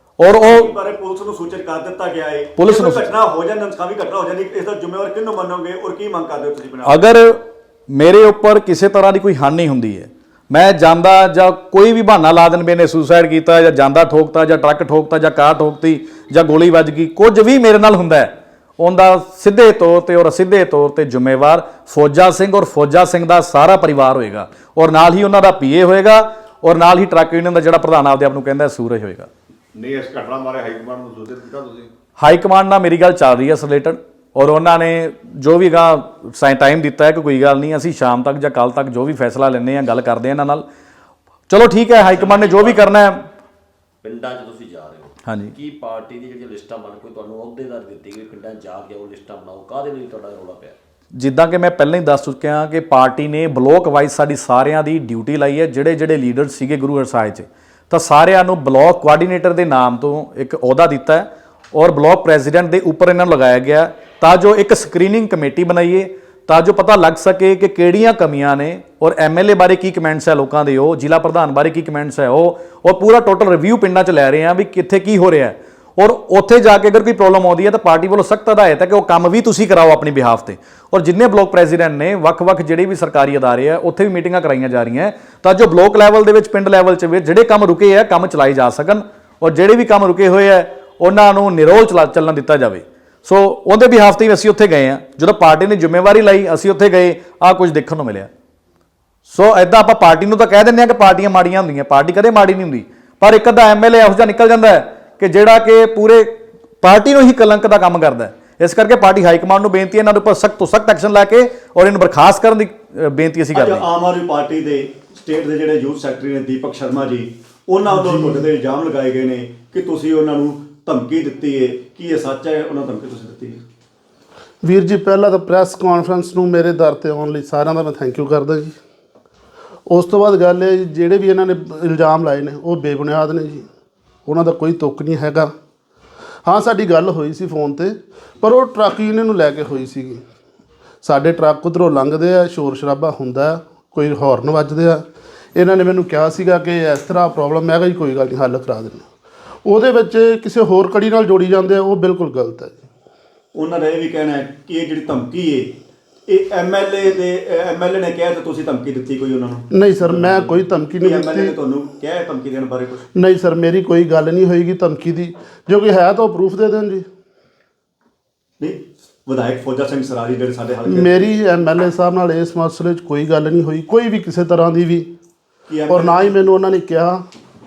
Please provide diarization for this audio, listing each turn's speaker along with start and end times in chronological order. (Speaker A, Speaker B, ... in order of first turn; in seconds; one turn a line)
Speaker A: 0.2-0.7
Speaker B: 0.4-7.0
Speaker A: 2.6-3.1
Speaker A: 6.8-29.3
Speaker C: 29.7-31.9
Speaker A: 32.2-40.6
Speaker A: 41.5-43.2
Speaker D: 42.1-42.8
Speaker D: 44.0-50.8
Speaker A: 45.2-45.5
Speaker A: 51.1-98.3
Speaker A: 99.3-106.3
Speaker A: 106.8-113.8
Speaker B: 113.5-123.6
Speaker E: 117.9-118.5
Speaker E: 124.6-128.8
Speaker E: 129.9-133.6
Speaker E: 134.2-135.5
Speaker E: 136.4-140.2
Speaker E: 141.0-145.0
Speaker E: 145.5-149.0
Speaker E: 149.7-152.8
Speaker B: 153.5-155.7
Speaker B: 156.3-163.0
Speaker E: 159.7-161.5
Speaker E: 163.1-167.1
Speaker B: 168.6-171.3
Speaker E: 170.8-175.1
Speaker B: 175.7-176.3
Speaker E: 175.9-177.2